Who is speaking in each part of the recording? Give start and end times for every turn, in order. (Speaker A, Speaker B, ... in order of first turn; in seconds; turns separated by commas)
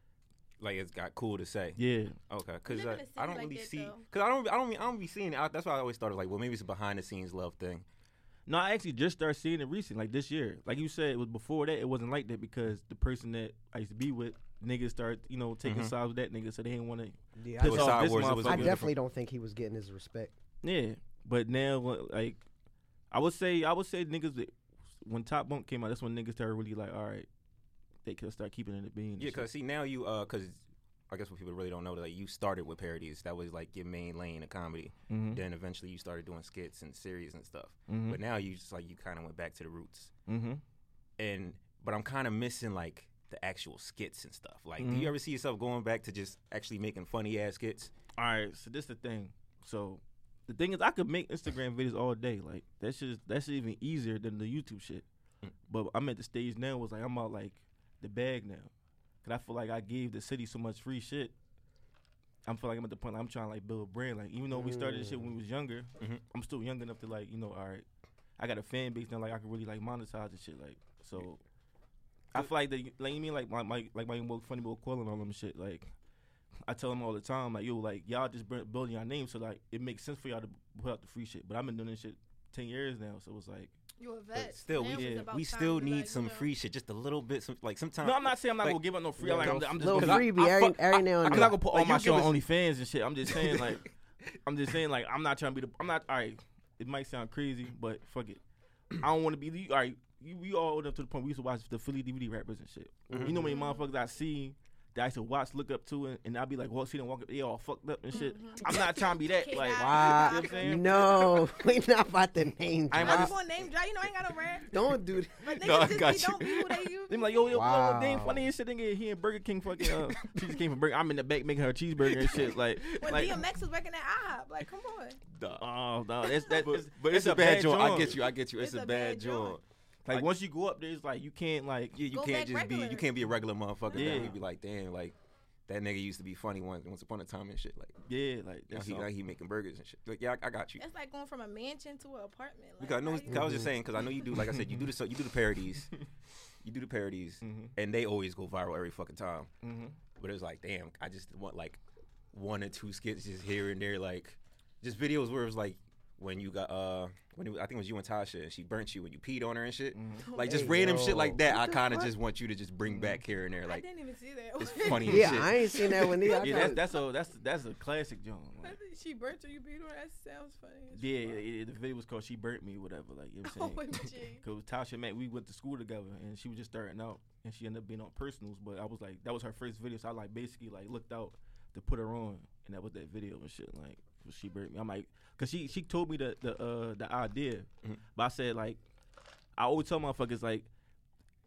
Speaker A: 0.6-7.8, Speaker B: 1.8-2.2, Speaker C: 2.7-4.0, Speaker B: 8.5-18.9, Speaker A: 15.6-15.9, Speaker D: 17.4-20.3, Speaker A: 17.6-18.9, Speaker B: 20.6-22.4, Speaker B: 23.1-27.3, Speaker B: 28.0-29.5, Speaker A: 29.2-40.1, Speaker B: 35.1-35.4, Speaker B: 37.9-38.2, Speaker B: 40.3-40.6, Speaker A: 41.2-47.9, Speaker B: 44.8-45.1, Speaker B: 48.2-55.0, Speaker B: 55.7-58.7, Speaker B: 59.2-61.3, Speaker B: 62.5-67.8, Speaker D: 64.5-65.3, Speaker B: 68.4-71.4, Speaker B: 72.3-75.9, Speaker B: 76.7-83.7, Speaker C: 84.0-86.5, Speaker A: 84.3-92.5, Speaker B: 84.9-85.3, Speaker B: 88.0-93.8, Speaker D: 89.2-91.6, Speaker A: 93.3-93.8, Speaker B: 94.4-98.4, Speaker B: 99.0-111.4, Speaker D: 103.1-103.4, Speaker A: 103.1-103.5, Speaker C: 103.4-103.8, Speaker C: 108.1-111.0, Speaker D: 109.7-113.3, Speaker B: 112.9-113.3, Speaker C: 113.0-114.7, Speaker D: 114.7-115.5, Speaker C: 115.4-117.6, Speaker A: 115.6-116.8, Speaker B: 117.1-123.3, Speaker D: 117.5-118.5, Speaker A: 119.8-120.3, Speaker A: 122.0-123.4, Speaker C: 123.0-125.2, Speaker A: 125.3-125.7, Speaker B: 125.6-128.2, Speaker A: 126.2-130.3, Speaker C: 128.6-129.6, Speaker B: 130.1-132.0, Speaker A: 131.9-135.1, Speaker C: 132.1-133.3, Speaker C: 133.8-134.4, Speaker B: 133.9-134.4, Speaker A: 135.7-137.9, Speaker B: 138.1-139.1, Speaker A: 138.7-140.8, Speaker C: 140.8-143.5, Speaker A: 142.8-145.9, Speaker D: 143.3-143.7, Speaker B: 144.4-144.9, Speaker A: 146.6-149.5, Speaker B: 147.4-147.7, Speaker B: 149.6-150.0, Speaker A: 150.2-151.8, Speaker A: 152.3-163.8, Speaker B: 159.9-160.3, Speaker C: 160.2-160.8, Speaker D: 160.4-162.1, Speaker B: 162.8-163.2, Speaker C: 163.7-167.0, Speaker A: 164.6-165.5, Speaker D: 165.0-166.8, Speaker B: 165.1-165.3, Speaker B: 166.4-168.8, Speaker C: 168.6-171.4, Speaker B: 170.9-173.8, Speaker C: 173.5-174.4, Speaker B: 174.4-188.8, Speaker B: 189.6-190.7